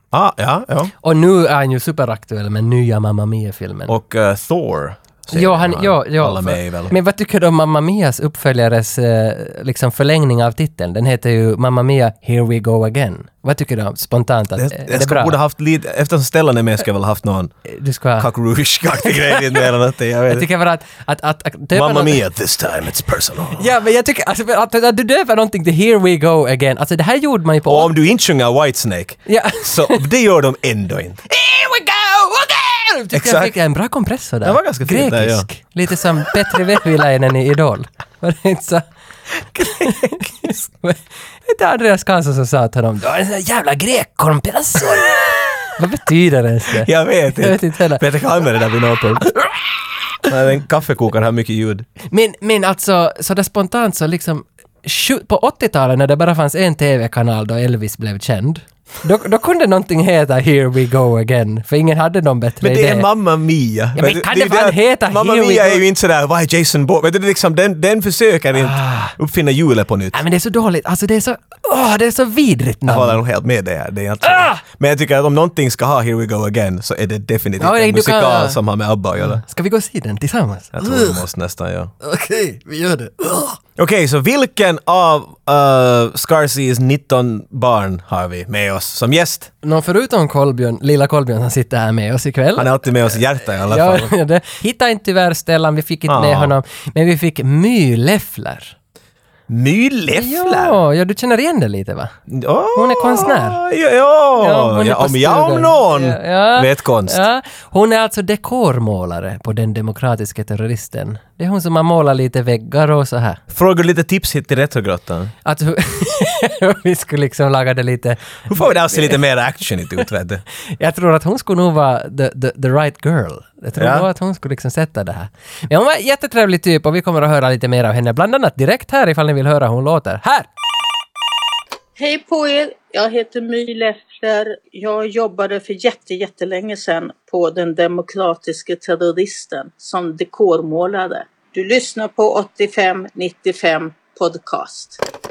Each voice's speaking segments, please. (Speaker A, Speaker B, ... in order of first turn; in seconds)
Speaker A: 0.1-0.9, 3.9-7.0, 14.6-17.5, 18.2-20.4, 21.7-23.6, 27.7-31.2, 33.1-33.5, 34.4-35.5, 46.8-49.3, 50.2-51.9, 62.6-70.2, 72.8-79.4, 80.7-81.9, 83.8-89.5, 92.5-94.1, 96.1-96.5, 99.5-100.8, 102.3-107.2, 113.5-115.3, 118.5-120.4, 123.8-124.0
Speaker B: 1.0-3.9, 5.3-15.4, 17.6-18.3, 18.9-19.7, 20.3-22.2, 23.6-27.9, 29.2-30.0, 31.3-38.8, 39.5-48.0, 49.2-49.5, 52.1-63.1, 64.0-65.8, 68.5-69.2, 70.1-73.2, 74.2-74.6, 77.6-78.6, 79.2-81.2, 82.0-83.6, 89.6-98.7, 100.1-102.2, 102.7-103.6, 104.4-113.4, 115.4-119.2, 120.8-130.5
Speaker C: 132.0-145.0